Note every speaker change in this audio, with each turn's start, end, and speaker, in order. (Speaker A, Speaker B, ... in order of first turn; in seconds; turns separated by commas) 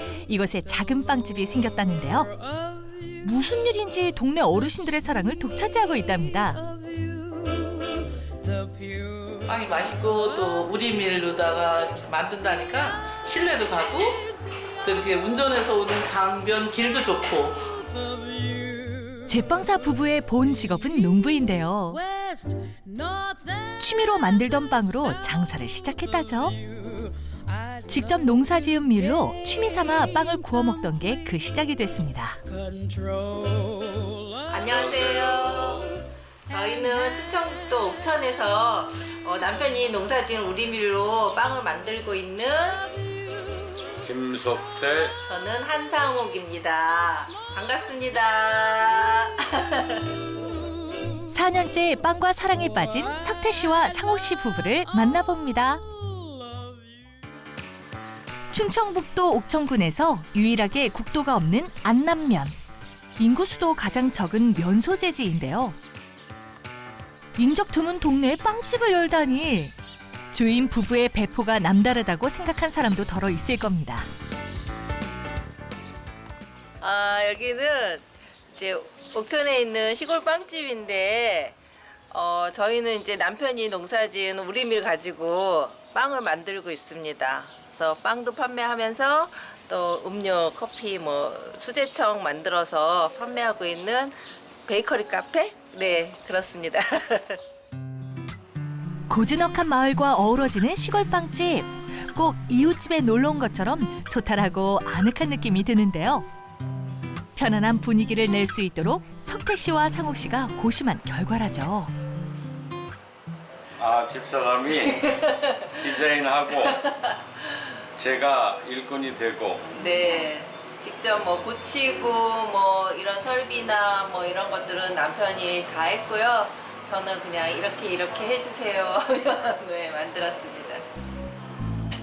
Speaker A: 0.2-2.3, Speaker A: 3.2-6.6, Speaker B: 9.4-14.3, Speaker B: 14.8-17.8, Speaker A: 19.3-22.0, Speaker A: 23.8-26.6, Speaker A: 27.9-32.4, Speaker C: 34.5-42.9, Speaker D: 34.7-35.9, Speaker D: 44.0-45.2, Speaker C: 45.2-50.1, Speaker A: 51.3-55.8, Speaker A: 58.5-62.5, Speaker A: 63.2-65.8, Speaker A: 67.3-69.7, Speaker A: 70.3-74.1, Speaker C: 76.8-81.6, Speaker C: 82.1-94.1, Speaker C: 94.7-97.4, Speaker A: 99.1-106.2, Speaker A: 107.3-111.9, Speaker D: 113.8-116.9, Speaker C: 115.3-115.6, Speaker D: 118.0-119.7, Speaker C: 119.7-130.8